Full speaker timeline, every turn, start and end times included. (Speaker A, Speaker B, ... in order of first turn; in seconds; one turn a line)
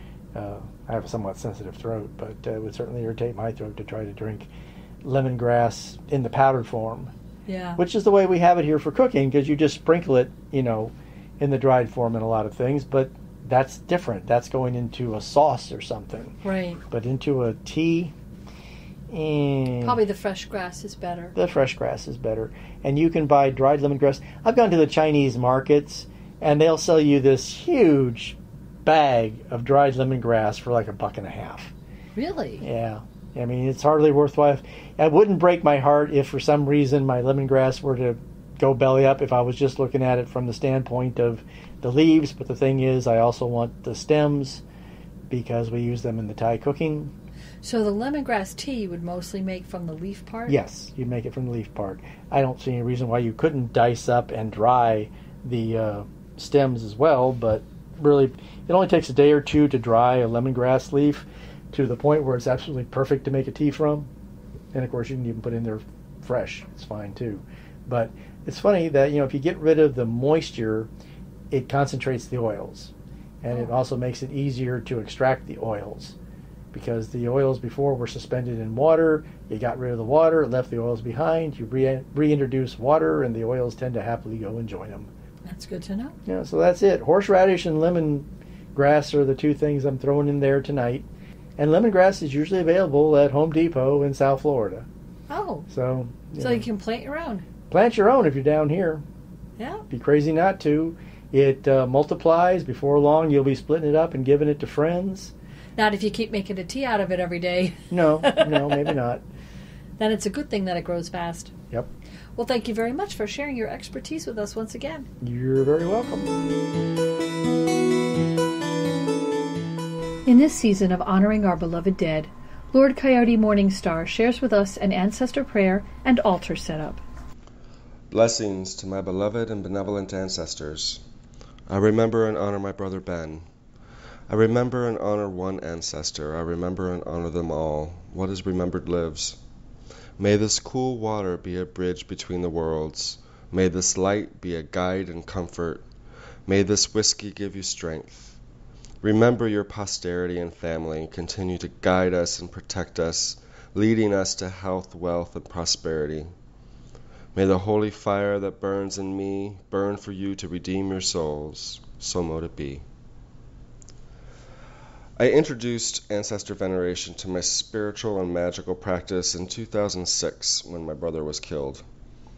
Speaker A: 0.3-4.5
Speaker A: 5.0-7.1
Speaker B: 7.5-7.8
Speaker A: 7.8-16.4
Speaker B: 16.4-16.8
Speaker A: 16.9-18.1
Speaker A: 19.1-20.0
Speaker B: 19.8-21.4
Speaker A: 21.4-31.7
Speaker B: 32.2-32.7
Speaker A: 32.6-44.6
Speaker A: 45.3-47.1
Speaker B: 47.6-50.6
Speaker A: 50.5-64.1
Speaker A: 64.7-70.9
Speaker A: 71.5-72.9
Speaker A: 73.4-76.2
Speaker A: 76.7-85.1
Speaker B: 85.5-86.2
Speaker A: 86.3-91.1
Speaker A: 91.6-94.9
Speaker B: 95.3-95.7
Speaker A: 95.7-96.7
Speaker B: 96.4-97.5
Speaker A: 97.7-99.0
Speaker B: 99.6-99.8
Speaker A: 99.9-105.3
Speaker B: 105.8-108.9
Speaker A: 107.9-109.2
Speaker B: 110.0-111.5
Speaker B: 112.4-115.1
Speaker A: 115.2-116.3
Speaker B: 120.3-127.0
Speaker C: 128.1-131.0
Speaker C: 131.7-133.4
Speaker C: 134.3-139.4
Speaker C: 140.2-145.8
Speaker C: 146.5-148.4
Speaker C: 149.0-156.3
Speaker C: 157.3-162.8
Speaker C: 165.2-171.8